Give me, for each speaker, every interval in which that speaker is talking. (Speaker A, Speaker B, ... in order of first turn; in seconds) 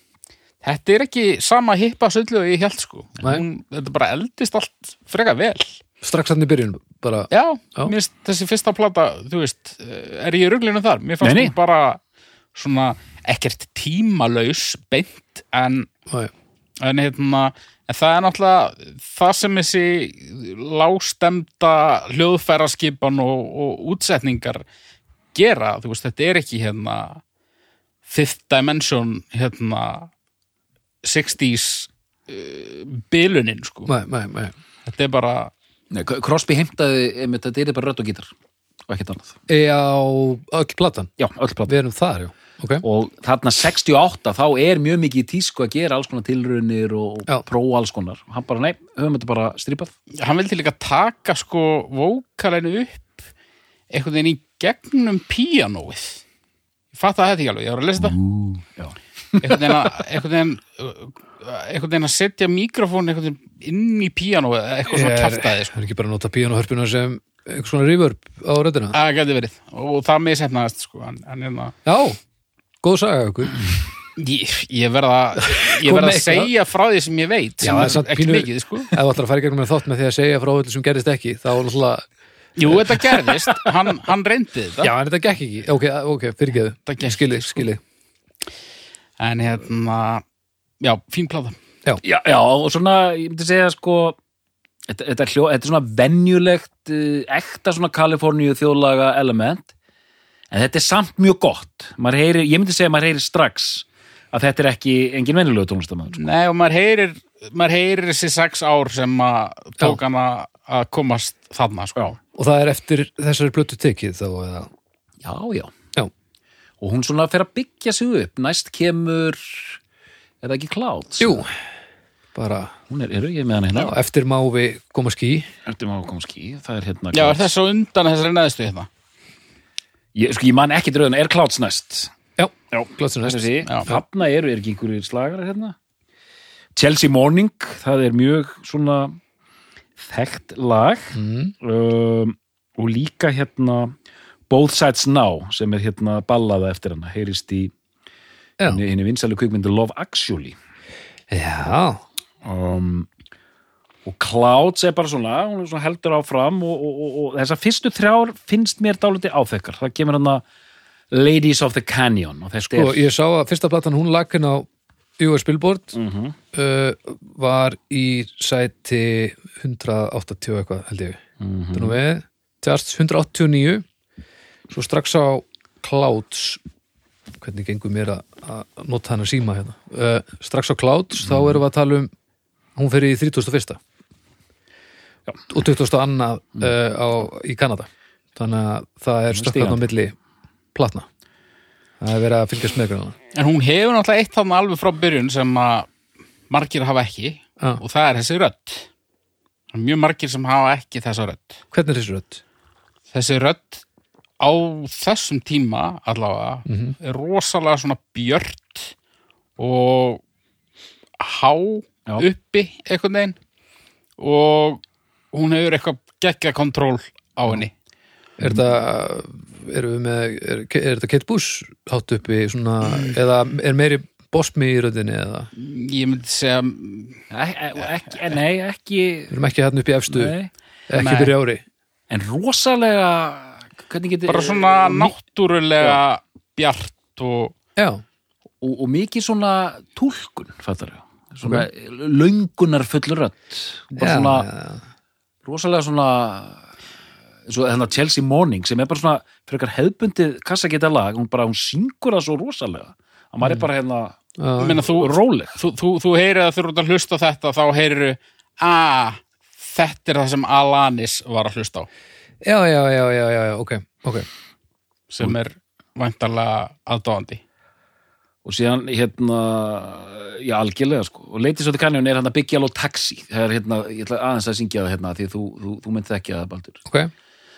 Speaker A: 0.6-5.8, 7.3-12.0, 12.5-15.9, 16.8-24.6, 25.3-27.2, 28.1-30.1, 31.0-33.9, 34.8-35.5, 50.1-53.2, 53.9-56.2, 56.9-58.1, 59.4-65.7, 68.9-71.7, 74.2-79.0, 82.6-84.9, 86.9-87.7, 89.2-90.2, 90.8-91.6, 106.2-112.1, 127.1-128.9, 133.7-133.9, 193.3-195.9, 196.5-198.9, 199.7-201.6, 203.1-203.8, 204.4-208.9, 209.6-210.2, 211.2-213.4, 214.2-214.8, 215.3-217.7, 225.5-227.2, 230.9-231.3, 234.3-237.5, 254.6-261.9, 265.1-267.4
Speaker B: 6.0-7.9, 33.9-34.5, 39.5-41.1, 41.7-42.8, 64.9-69.0, 71.8-72.2, 72.8-73.6, 75.6-76.5, 77.6-82.0, 82.6-83.0, 84.8-87.8, 112.3-114.7, 121.2-121.5, 122.3-122.7, 123.7-125.5, 132.4-134.0, 141.1-141.5, 151.3-152.0, 162.7-164.7, 165.2-165.9, 166.5-171.2, 171.7-173.8, 174.7-176.6, 177.4-182.1, 182.8-183.8, 185.5-190.1, 190.7-191.1, 192.0-193.2, 201.7-202.4, 206.7-206.9, 218.4-225.5, 229.3-230.3, 230.9-231.6, 237.8-238.0, 243.9-244.8, 254.4-254.8, 262.4-264.3
Speaker C: 11.2-11.5, 35.9-38.3, 38.9-39.4, 41.2-41.7, 42.8-49.9, 58.0-60.0, 92.0-94.2, 94.9-99.7, 100.5-106.2, 115.2-115.7, 116.8-119.8, 120.4-121.4, 122.9-123.9, 125.7-127.5, 130.1-132.1, 132.7-135.8, 136.8-139.2, 140.0-143.9, 144.5-147.7, 148.7-150.6, 152.4-153.1, 154.0-160.4, 161.1-163.1, 165.9-166.3, 171.4-172.0, 189.3-189.8, 227.3-229.3, 230.1-230.5, 232.1-235.2, 238.6-244.5, 245.4-246.6, 247.5-255.6, 268.4-276.8